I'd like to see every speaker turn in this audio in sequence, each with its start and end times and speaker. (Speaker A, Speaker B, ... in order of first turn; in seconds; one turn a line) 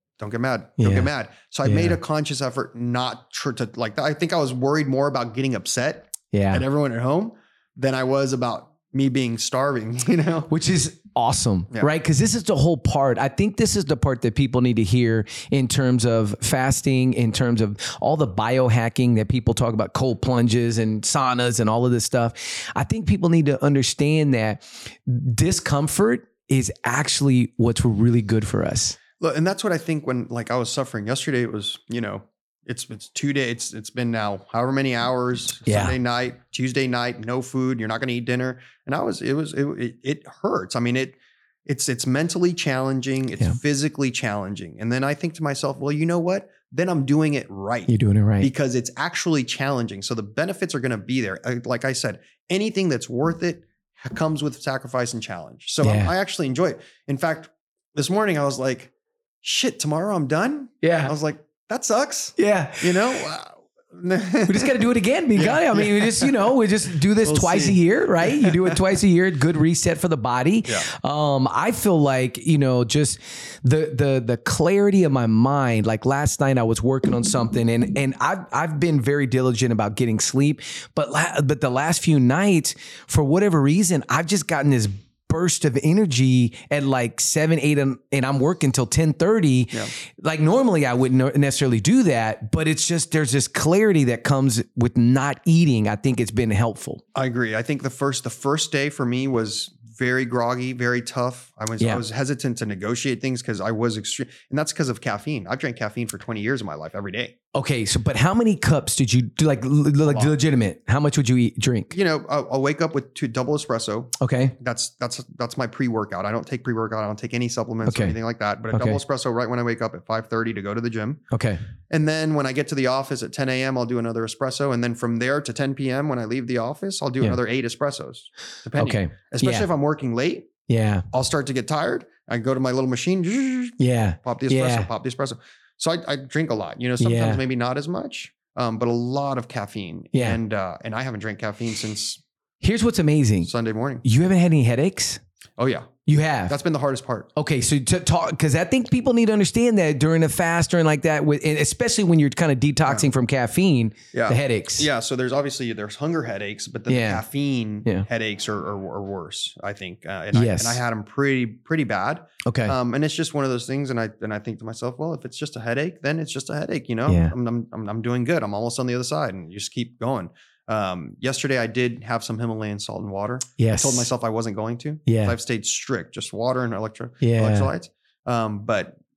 Speaker A: 0.2-10.5
Speaker B: 0.8-1.1
Speaker B: 1.6-2.0
Speaker B: 6.3-6.6
Speaker B: 10.5-29.0
Speaker A: 29.2-66.5
Speaker B: 35.6-36.0
Speaker B: 47.9-48.5
Speaker B: 55.8-56.1
Speaker B: 60.8-61.1
Speaker B: 62.4-63.2
Speaker B: 64.5-97.0
Speaker A: 67.2-68.8
Speaker A: 97.1-107.3
Speaker B: 107.5-111.9
Speaker A: 110.1-110.3
Speaker A: 111.9-121.2
Speaker B: 114.2-114.6
Speaker B: 117.9-118.2
Speaker B: 118.7-119.0
Speaker B: 121.3-121.6
Speaker A: 121.9-130.5
Speaker B: 128.8-129.7
Speaker B: 130.7-131.1
Speaker A: 131.1-142.2
Speaker B: 133.8-134.9
Speaker B: 137.0-137.4
Speaker B: 140.1-140.4
Speaker B: 142.6-143.5
Speaker A: 143.4-144.1
Speaker B: 144.0-145.2
Speaker A: 145.6-145.9
Speaker B: 146.1-146.6
Speaker A: 146.5-147.3
Speaker B: 147.4-154.9
Speaker A: 154.1-179.0
Speaker B: 156.9-157.2
Speaker B: 160.3-160.8
Speaker B: 162.4-162.8
Speaker B: 167.1-167.3
Speaker B: 173.6-174.1
Speaker B: 175.1-175.4
Speaker B: 177.2-177.7